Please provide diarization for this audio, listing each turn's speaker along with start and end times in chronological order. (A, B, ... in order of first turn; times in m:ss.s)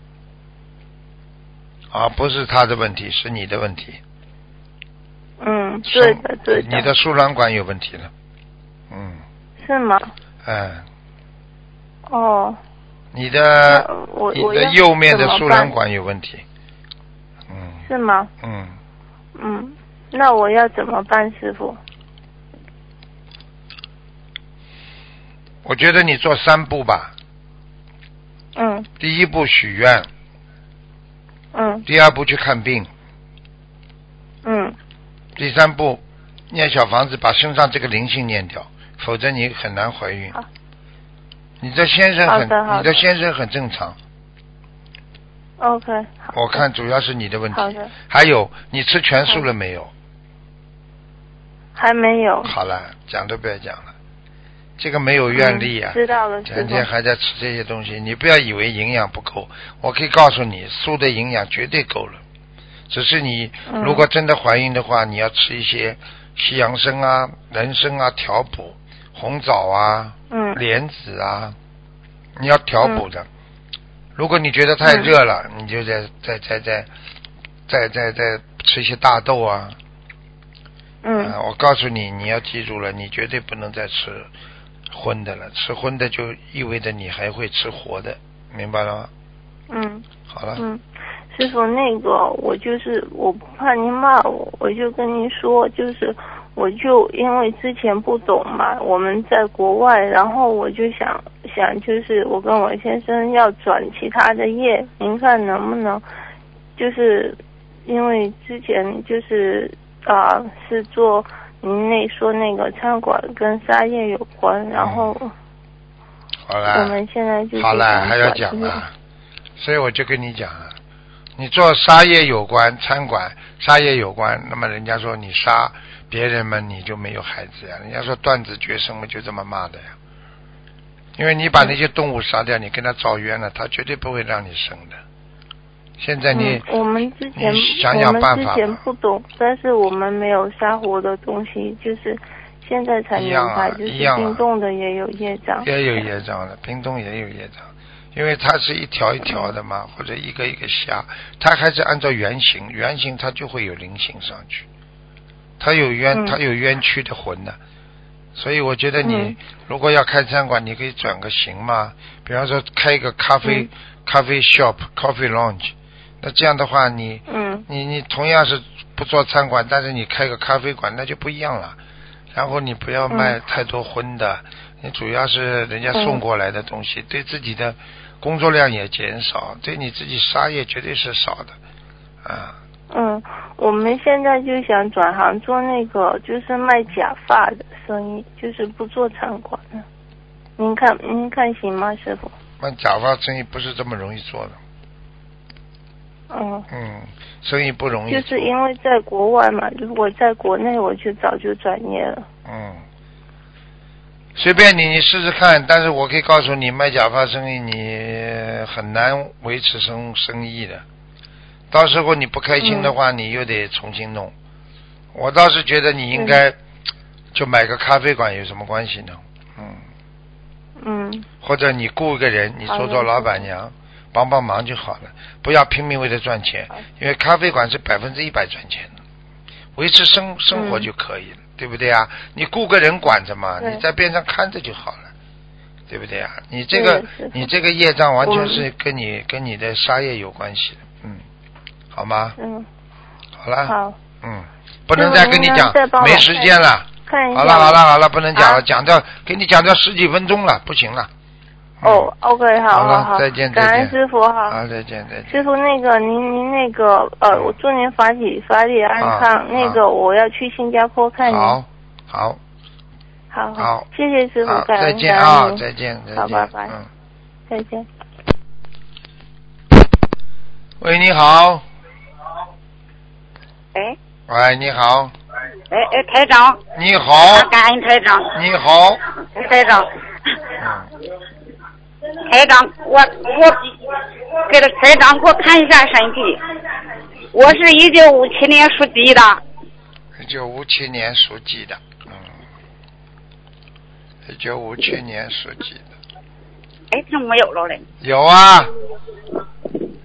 0:01.9-0:04.0 A
0:05.4-0:06.9 B
0:05.9-0:08.1 A
0:08.9-0:09.2 A
0:09.6-0:10.1 B
0:10.4-0:10.9 A
0:12.1-0:12.6 B
0:13.1-0:16.4 A
0:13.7-0:15.7 B
0:17.5-0:17.8 A
0:17.9-0:18.3 B
0:18.4-0:18.8 A
0:19.4-0:21.8 B
0:25.6-0:27.1 A
0:28.6-0:28.9 B
0:29.0-0:30.1 A
0:31.5-0:31.8 B
0:31.9-0:32.9 A
0:34.4-0:34.8 B
0:35.4-0:40.4 A
0:41.6-0:44.0 A
0:42.3-0:42.9 B
0:45.6-0:46.6 B
0:46.3-0:49.9 A
0:47.5-0:47.9 B
0:51.8-0:52.5 B
0:52.4-0:53.9 A
0:54.8-1:02.2 A
0:55.3-0:56.9 B
1:02.9-1:11.6 A
1:03.7-1:04.0 B
1:10.3-1:10.6 B
1:12.4-1:13.3 A
1:14.2-1:16.9 A
1:14.8-1:15.1 B
1:17.7-1:19.8 A
1:21.0-1:21.4 B
1:21.2-1:24.3 A
1:24.9-1:29.1 A
1:29.7-1:30.0 B
1:30.3-1:30.6 A
1:30.6-1:30.8 B
1:31.3-1:46.0 B
1:46.8-1:55.3 B
1:54.8-1:55.1 A
1:56.5-1:57.0 A
1:56.7-1:58.8 B
1:57.6-1:58.9 A
1:59.6-2:00.8 A
2:01.4-2:09.9 A
2:11.2-2:15.0 A
2:16.0-2:16.6 A
2:16.3-2:26.0 B
2:17.4-2:18.8 A
2:23.1-2:24.4 A
2:25.6-2:34.6 A
2:35.6-2:37.6 A
2:38.4-2:51.8 A
2:39.0-2:39.4 B
2:43.4-2:43.7 B
2:47.3-2:47.6 B
2:52.3-3:01.6 A
2:53.1-2:53.4 B
2:55.9-2:56.2 B
3:02.2-3:02.6 A
3:02.9-3:09.8 B
3:10.6-3:12.3 B
3:12.6-3:14.6 A
3:16.3-3:16.6 B
3:16.7-3:18.5 A
3:18.1-3:22.3 B
3:22.4-3:22.8 A
3:24.4-3:30.8 A
3:31.7-3:34.3 A
3:32.6-3:32.9 B
3:35.1-3:36.6 A
3:36.1-3:36.4 B
3:37.3-3:39.8 A
3:40.8-3:41.3 B
3:41.4-3:48.9 A
3:42.7-3:43.4 B
3:49.8-3:55.1 A
3:50.5-3:50.9 B
3:55.9-4:01.2 A
3:56.7-3:57.4 B
3:58.2-3:58.6 B
4:01.9-4:02.4 A
4:02.4-4:02.6 B
4:03.4-4:11.1 A
4:03.7-4:03.9 B
4:04.9-4:06.6 B
4:07.1-4:07.8 B
4:08.4-4:08.6 B
4:11.8-4:12.1 A
4:11.8-4:14.6 B
4:12.7-4:13.9 A
4:14.5-4:15.4 A
4:15.3-4:21.6 B
4:19.0-4:19.8 A
4:21.3-4:22.4 A
4:23.3-4:25.6 B
4:23.6-4:23.8 A
4:24.4-4:26.9 A
4:26.1-4:26.7 B
4:27.5-4:27.9 B
4:30.8-4:31.6 A
4:34.3-4:35.1 A
4:35.7-4:36.6 C
4:36.7-4:37.5 A
4:37.3-4:38.4 C
4:38.3-4:39.0 A
4:39.4-4:39.9 C
4:40.6-4:40.9 A
4:42.3-4:43.7 C
4:44.4-4:46.4 C
4:47.3-4:49.4 C
4:50.2-4:52.3 A
4:54.3-4:55.9 A
4:56.9-4:57.9 C
4:58.0-4:58.7 A